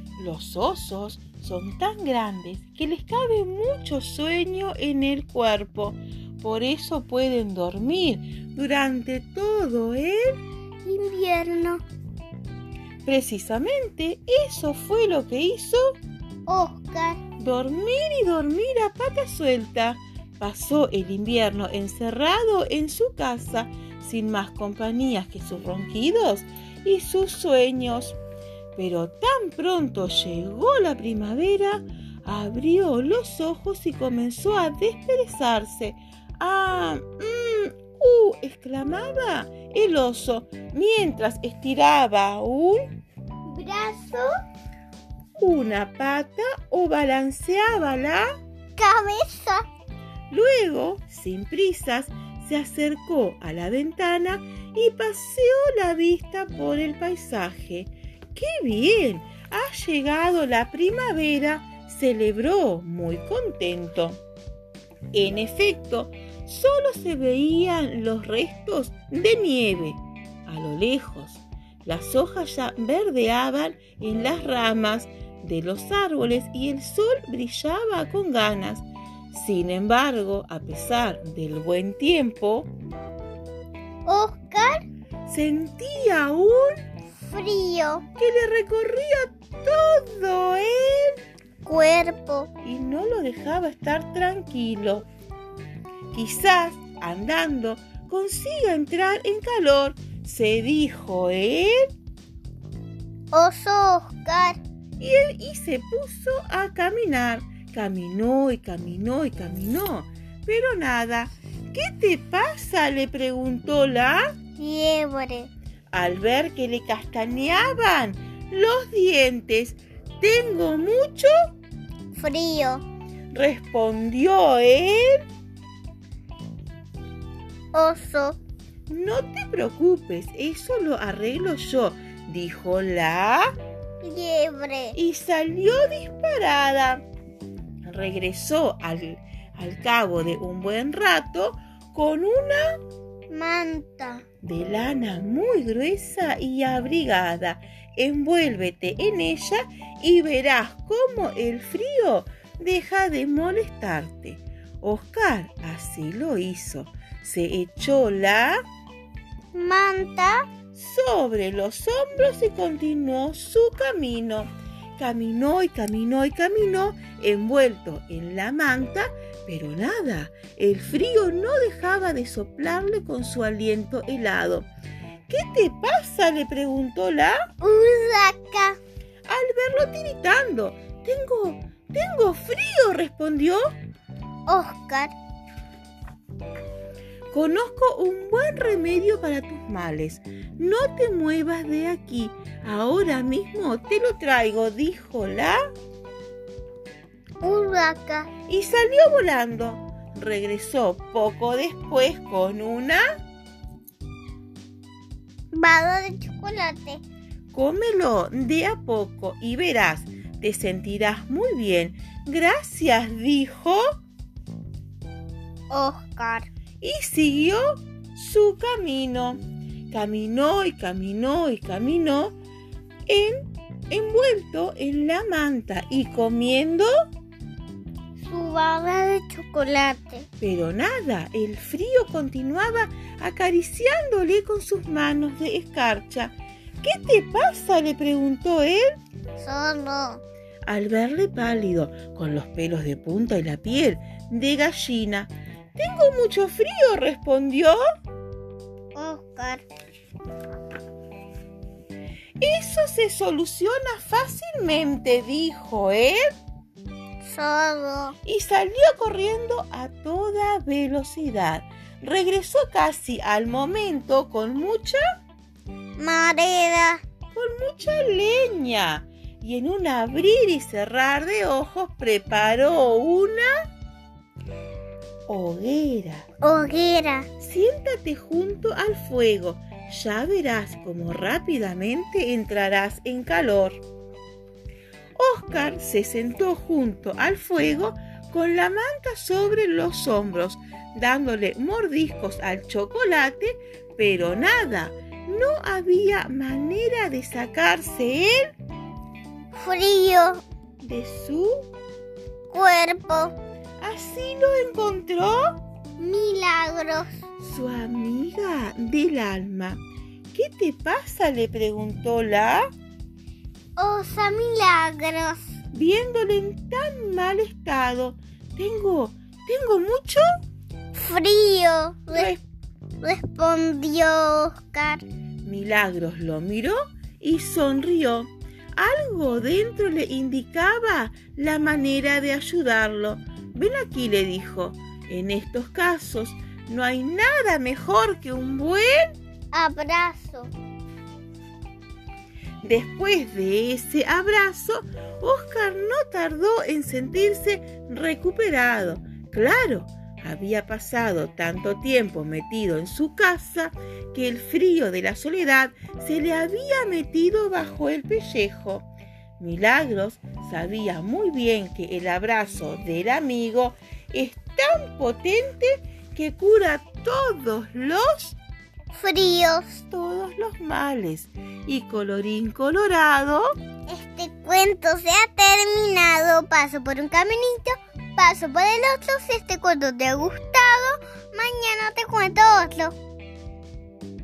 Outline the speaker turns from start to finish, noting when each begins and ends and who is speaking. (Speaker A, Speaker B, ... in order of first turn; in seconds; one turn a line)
Speaker A: 0.2-10.4
Speaker B: 10.8-11.8
Speaker A: 13.1-16.0
Speaker B: 16.5-17.2
Speaker A: 17.4-28.2
Speaker A: 28.8-42.9
Speaker B: 43.5-44.3
Speaker A: 45.4-48.3
Speaker B: 48.8-49.6
Speaker A: 50.3-64.2
Speaker A: 65.1-82.7
Speaker B: 84.0-84.8
Speaker A: 85.3-86.8
Speaker B: 87.2-88.0
Speaker A: 88.2-91.2
Speaker B: 91.6-92.5
Speaker A: 92.6-95.0
Speaker A: 96.1-101.9
Speaker B: 103.3-104.6
Speaker A: 105.0-114.3
Speaker B: 114.6-115.5
Speaker A: 115.9-121.3
Speaker B: 122.1-122.8
Speaker A: 123.3-125.2
Speaker B: 127.7-128.4
Speaker A: 128.9-133.5
Speaker B: 134.0-135.0
Speaker A: 134.9-137.0
Speaker A: 137.8-142.7
Speaker B: 143.3-144.2
Speaker A: 144.4-158.6
Speaker B: 159.5-160.5
Speaker A: 160.7-174.7
Speaker A: 175.3-177.5
Speaker B: 177.6-178.8
Speaker A: 179.2-183.6
Speaker B: 184.5-185.1
Speaker A: 187.3-195.6
Speaker B: 197.4-198.3
Speaker A: 198.5-203.0
Speaker B: 205.5-207.0
Speaker A: 207.5-213.8
Speaker B: 215.7-216.5
Speaker A: 216.8-217.6
Speaker A: 218.1-219.4
Speaker A: 219.9-222.4
Speaker A: 223.1-226.9
Speaker B: 228.2-230.3
Speaker A: 230.4-239.0
Speaker B: 239.4-240.2
Speaker A: 240.7-247.8
Speaker B: 248.9-249.7
Speaker A: 252.4-256.3
Speaker B: 257.2-258.1
Speaker A: 258.2-265.0
Speaker B: 265.9-267.0
Speaker A: 267.3-273.5
Speaker A: 275.3-276.3
Speaker B: 276.4-277.3
Speaker A: 277.4-283.8
Speaker A: 285.1-298.5
Speaker B: 299.5-300.4
Speaker A: 300.8-301.6
Speaker B: 302.5-303.4
Speaker A: 303.8-305.5
Speaker B: 306.0-307.1
Speaker A: 307.4-309.8
Speaker A: 310.3-312.7
Speaker B: 313.8-315.5
Speaker A: 315.7-320.2
Speaker B: 320.9-322.3
Speaker A: 322.1-322.4
Speaker B: 323.0-325.0
Speaker A: 325.4-339.1
Speaker B: 339.5-340.5
Speaker A: 342.6-358.9
Speaker A: 359.4-368.4
Speaker B: 368.9-369.8
Speaker A: 369.9-373.5
Speaker B: 373.9-382.9